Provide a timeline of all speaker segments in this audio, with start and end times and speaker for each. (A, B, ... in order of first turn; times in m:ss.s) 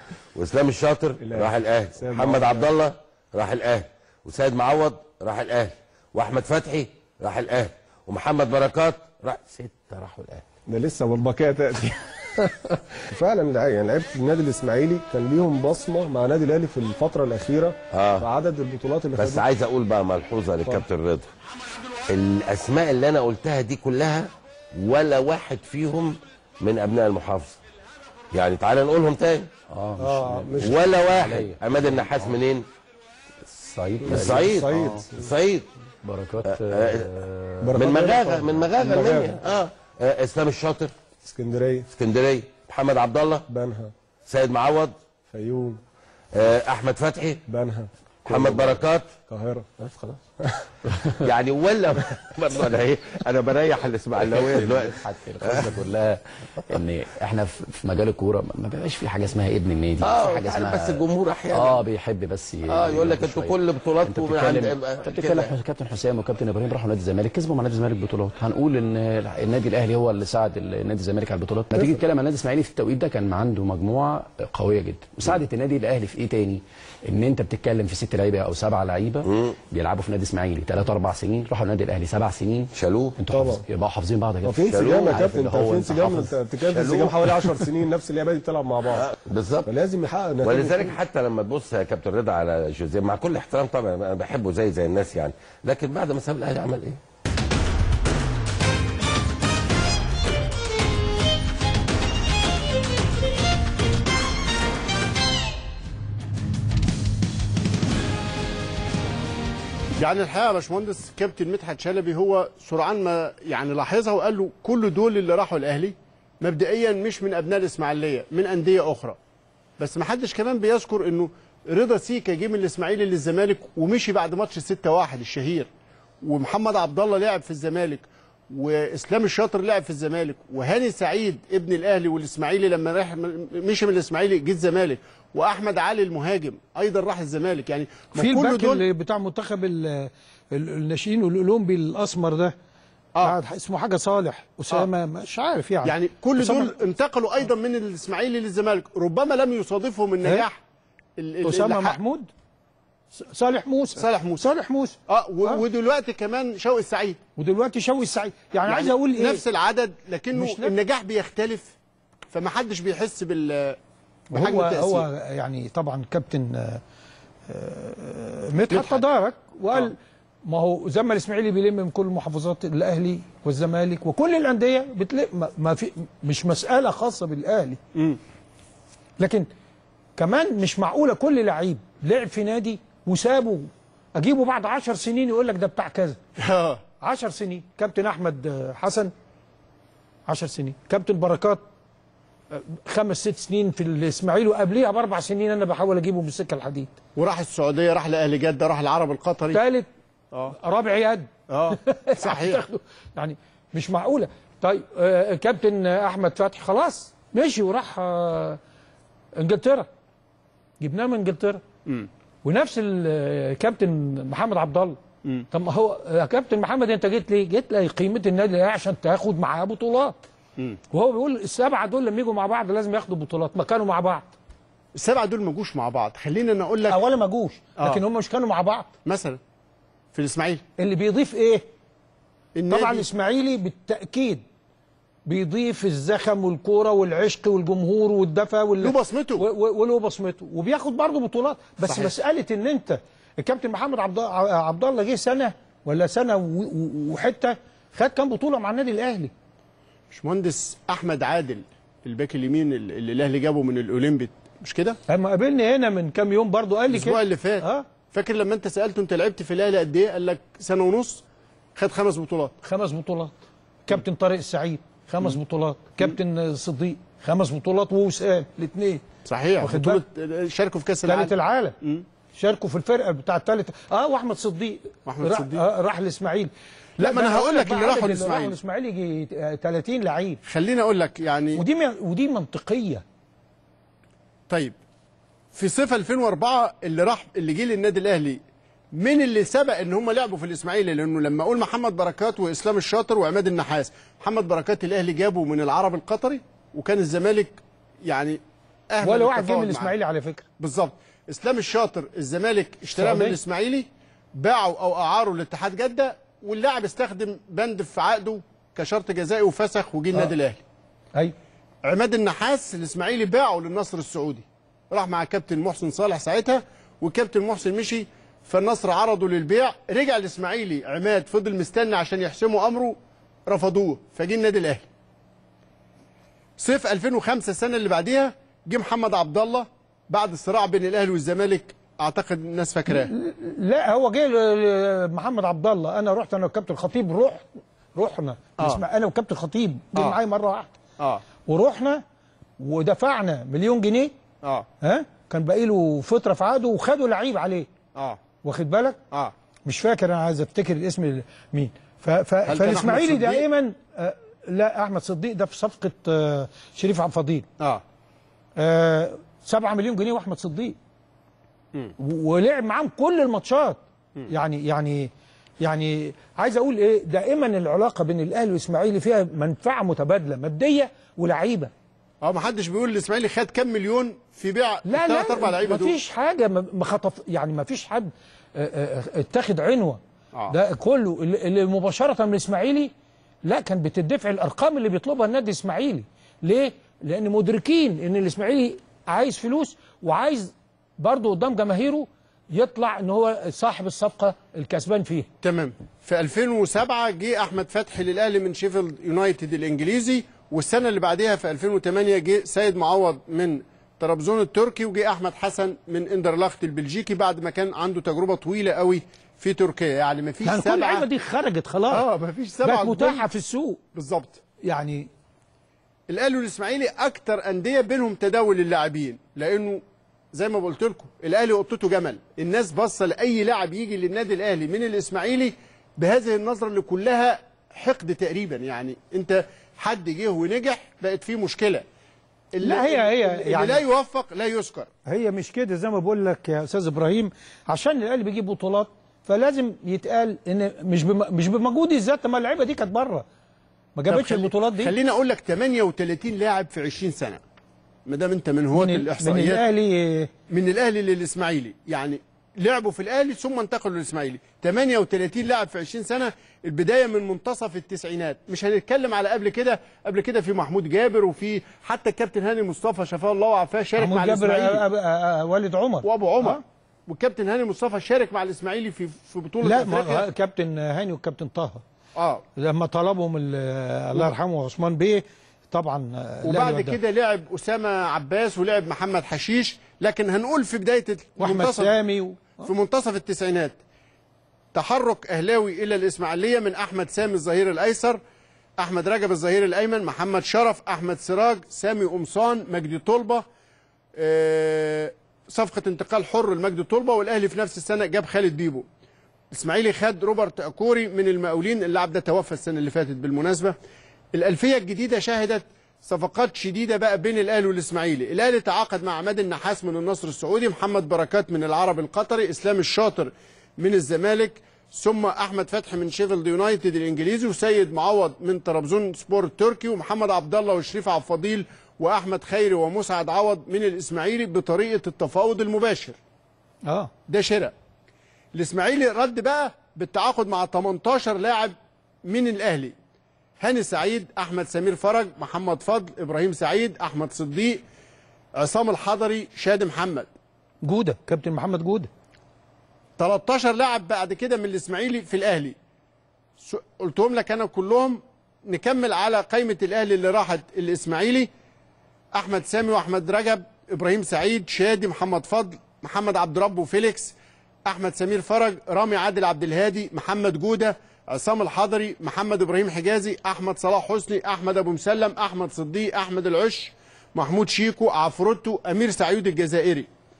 0:00.3-0:10.4 A
0:01.2-0:02.7 B
0:10.7-0:19.4 B
0:17.9-0:18.3 A
0:19.2-0:21.3 A
0:22.1-0:27.6 A
0:28.3-0:29.5 A
0:29.7-0:32.4 C
0:30.0-0:30.9 B
0:30.6-0:32.6 A
0:33.4-0:35.1 C
0:34.0-0:35.3 B
0:34.0-0:35.7 A
0:36.0-0:37.8 C
0:36.4-0:37.1 A
0:37.6-0:39.4 B
0:37.7-0:40.9 A
0:41.2-0:41.9 B
0:41.9-0:43.4 A
0:43.5-0:43.9 B
0:44.3-0:45.0 A
0:45.3-0:45.8 B
0:46.3-0:47.4 A
0:47.5-0:49.7 B
0:48.3-0:49.1 A
0:49.8-0:50.2 A
0:50.4-0:50.7 B
0:51.2-0:55.8 A
0:54.2-1:26.3 C
1:00.0-1:01.8 A
1:02.7-1:05.5 A
1:19.2-1:19.5 A
1:22.7-1:23.2 A
1:23.3-1:23.6 B
1:24.4-1:29.1 B
1:24.6-1:27.7 A
1:28.9-1:29.7 A
1:29.6-1:31.0 B
1:30.4-1:37.0 A
1:50.0-1:59.2 D
1:59.8-2:05.7 D
2:06.2-2:18.8 D
2:18.2-2:22.5 E
2:23.2-2:26.8 E
2:25.8-2:30.6 D
2:31.2-2:32.0 D
2:31.4-2:32.3 E
2:33.1-2:35.6 E
2:34.0-2:34.4 D
2:35.1-2:37.2 D
2:37.4-2:39.4 E
2:38.7-2:41.8 D
2:40.3-2:40.7 E
2:42.3-2:43.8 D
2:44.3-2:46.8 E
2:44.3-2:45.0 D
2:47.5-2:57.8 E
2:48.7-2:49.0 D
2:59.2-2:59.5 E
3:00.2-3:06.2 E
3:06.4-3:06.8 D
3:07.0-3:09.1 E
3:10.3-3:11.6 E
3:12.5-3:16.9 E
3:17.2-3:19.6 D
3:19.5-3:19.9 E
3:20.5-3:28.6 E
3:21.5-3:22.6 D
3:29.4-3:29.9 E
3:30.8-3:31.6 E
3:32.4-3:35.0 E
3:35.5-3:40.2 E
3:40.9-3:44.3 E
3:44.9-3:47.0 D
3:46.9-3:48.9 E
3:49.0-3:49.4 D
3:50.1-3:50.6 D
3:50.8-3:51.6 E
3:52.5-3:53.1 D
3:52.7-3:54.4 E
3:55.2-4:09.3 E
3:58.8-3:59.5 D
4:01.8-4:02.1 D
4:10.1-4:15.0 D
4:15.1-4:17.8 E
4:16.9-4:21.2 D
4:21.8-4:22.6 D
4:22.6-4:23.3 E
4:23.8-4:29.0 E
4:29.2-4:32.0 D
4:29.6-4:30.0 E
4:31.1-4:31.8 E
4:32.3-4:40.4 E
4:35.0-4:35.6 D
4:37.0-4:38.6 D
4:40.4-4:41.6 D
4:41.6-4:43.0 E
4:44.5-4:44.7 D
4:45.5-4:48.4 D
4:48.9-4:59.9 D
4:59.0-5:00.4 E
5:00.6-5:10.6 D
5:03.0-5:03.4 E
5:11.8-5:24.8 D
5:26.6-5:33.1 D
5:32.9-5:40.8 E
5:41.4-5:42.0 E
5:42.6-5:44.1 E
5:44.8-5:47.7 E
5:48.4-5:49.0 E
5:49.6-5:57.4 E
5:52.5-5:53.4 D
5:58.6-6:00.8 E
6:02.0-6:05.1 E
6:05.6-6:11.7 E
6:12.2-6:16.0 D
6:14.8-6:22.9 E
6:23.4-6:35.3 E
6:35.4-6:51.0 D
6:50.4-6:52.0 E
6:51.9-6:53.3 D
6:52.6-6:53.8 E
6:53.9-6:54.4 D
6:54.6-6:55.1 E
6:56.1-7:11.8 D
7:12.5-7:14.9 D
7:12.6-7:13.8 E
7:15.0-7:23.2 E
7:24.0-7:24.9 E
7:24.1-7:27.4 D
7:28.0-7:29.6 D
7:28.7-7:30.3 E
7:30.5-7:44.8 D
7:44.0-7:46.6 E
7:46.0-7:50.2 D
7:49.6-7:51.8 E
7:52.2-7:52.4 D
7:52.6-7:57.0 E
7:56.4-8:01.9 D
8:01.4-8:02.7 E
8:02.6-8:03.8 D
8:04.7-8:08.2 D
8:08.8-8:13.4 D
8:14.2-8:18.9 D
8:19.5-8:23.7 D
8:24.3-8:46.2 D
8:46.8-8:47.1 E
8:47.3-8:47.7 D
8:48.5-8:52.9 D
8:53.6-8:57.8 D
8:58.5-9:00.3 D
9:00.8-9:02.1 E
9:03.2-9:05.8 D
9:06.6-9:11.5 D
9:12.3-9:17.4 D
9:17.9-9:30.1 D